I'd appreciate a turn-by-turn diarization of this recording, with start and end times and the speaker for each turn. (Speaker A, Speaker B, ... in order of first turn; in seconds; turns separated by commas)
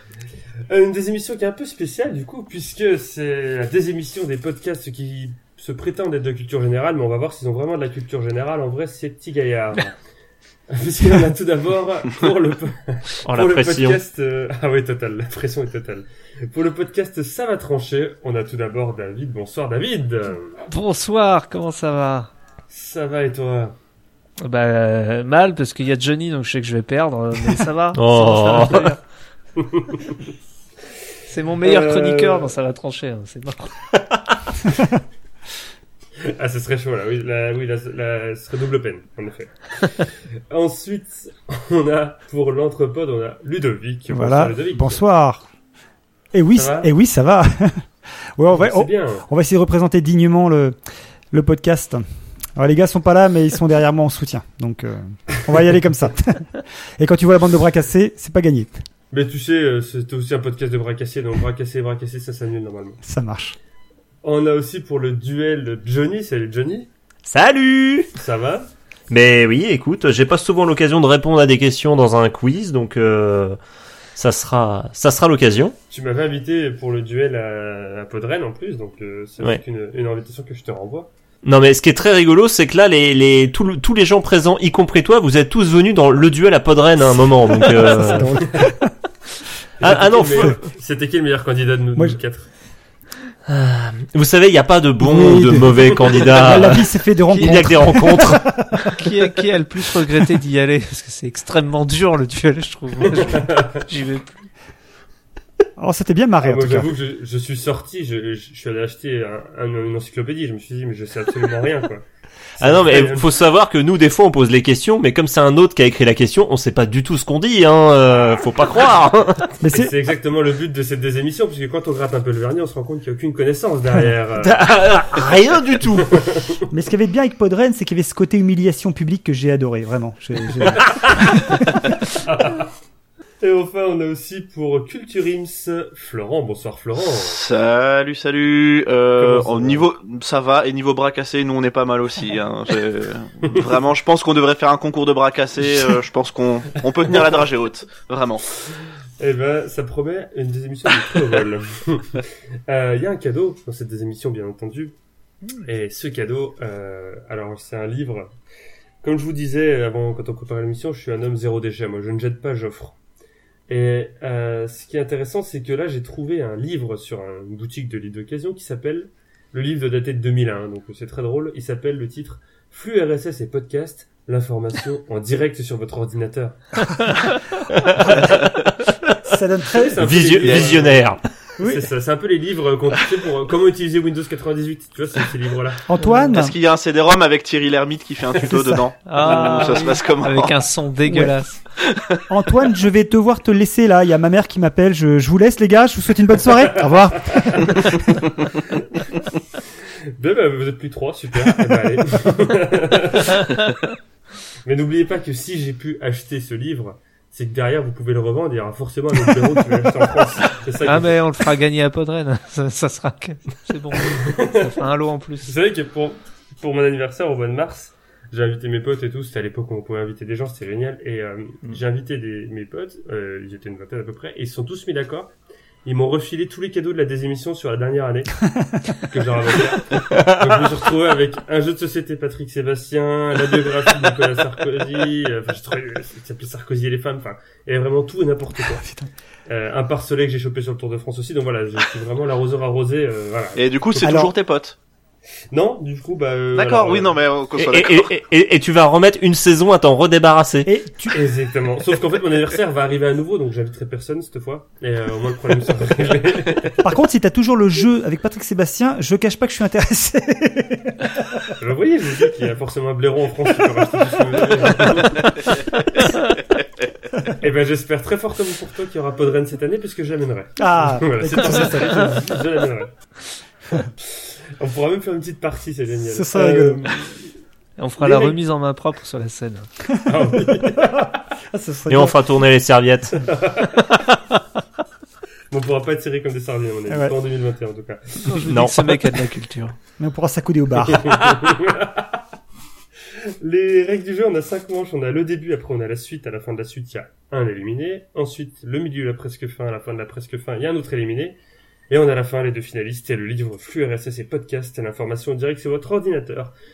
Speaker A: 0.7-9.9, Speaker A: 10.7-20.6, Speaker B: 13.2-14.0, Speaker C: 20.7-22.3, Speaker A: 22.7-23.7, Speaker C: 24.4-28.8, Speaker B: 27.9-28.9, Speaker D: 28.1-29.0, Speaker A: 29.6-30.2, Speaker C: 31.3-33.9, Speaker A: 31.6-32.5, Speaker D: 34.6-35.0, Speaker A: 36.2-45.0, Speaker D: 44.1-45.5, Speaker D: 46.3-50.8, Speaker A: 46.5-46.9, Speaker A: 48.5-49.3, Speaker D: 51.3-52.0, Speaker D: 52.5-58.8, Speaker A: 59.1-63.0, Speaker D: 63.0-63.5, Speaker A: 64.2-66.9, Speaker B: 67.2-68.1, Speaker A: 68.1-68.7, Speaker B: 69.1-73.6, Speaker B: 74.2-75.8, Speaker A: 75.9-81.1, Speaker B: 81.4-88.5, Speaker D: 87.5-88.9, Speaker A: 88.4-88.7, Speaker A: 89.8-92.5, Speaker B: 89.8-90.6, Speaker B: 93.5-98.5, Speaker D: 95.0-99.0, Speaker C: 97.3-98.2, Speaker C: 98.8-104.5, Speaker A: 103.1-103.8, Speaker D: 105.8-106.9, Speaker A: 106.4-112.0, Speaker A: 112.6-113.3, Speaker B: 112.6-119.5, Speaker D: 119.6-119.9, Speaker A: 119.7-124.6, Speaker B: 124.4-126.2, Speaker A: 126.0-126.6, Speaker D: 126.7-131.8, Speaker A: 130.7-132.7, Speaker A: 133.4-137.4, Speaker E: 137.1-148.5, Speaker A: 139.2-139.8, Speaker A: 149.2-154.9, Speaker A: 155.6-158.3, Speaker A: 159.0-162.9, Speaker A: 163.7-176.8, Speaker A: 177.8-178.3, Speaker D: 179.2-180.2, Speaker A: 179.7-185.8, Speaker B: 180.0-181.2, Speaker E: 180.4-180.9, Speaker D: 181.6-181.9, Speaker D: 185.9-186.5, Speaker E: 186.3-190.7, Speaker D: 188.4-189.9, Speaker C: 189.0-191.6, Speaker D: 191.0-191.3, Speaker E: 191.9-192.2, Speaker D: 192.3-198.0, Speaker A: 196.6-198.8, Speaker A: 200.2-203.6, Speaker C: 203.4-203.7, Speaker A: 204.6-211.2, Speaker C: 210.8-215.5, Speaker A: 214.0-214.7, Speaker A: 215.4-225.3, Speaker A: 225.8-238.8, Speaker D: 238.7-239.1, Speaker A: 239.5-243.6, Speaker E: 243.6-244.8, Speaker D: 243.9-244.3, Speaker A: 245.5-247.2, Speaker E: 246.5-248.1, Speaker B: 247.6-250.7, Speaker D: 250.7-251.2, Speaker A: 251.1-256.8, Speaker D: 256.8-261.5, Speaker A: 261.6-266.2, Speaker A: 267.3-272.9, Speaker D: 270.6-272.1, Speaker A: 274.0-277.3, Speaker D: 276.1-276.8, Speaker C: 277.8-279.7, Speaker A: 278.0-278.4, Speaker D: 280.0-282.2, Speaker A: 280.1-281.1, Speaker B: 281.9-283.3, Speaker A: 283.2-283.9, Speaker A: 285.5-288.4, Speaker D: 286.9-287.1, Speaker C: 288.2-289.8, Speaker B: 288.4-289.2, Speaker D: 290.0-291.2, Speaker A: 290.8-292.2, Speaker A: 293.2-301.4, Speaker A: 301.9-306.5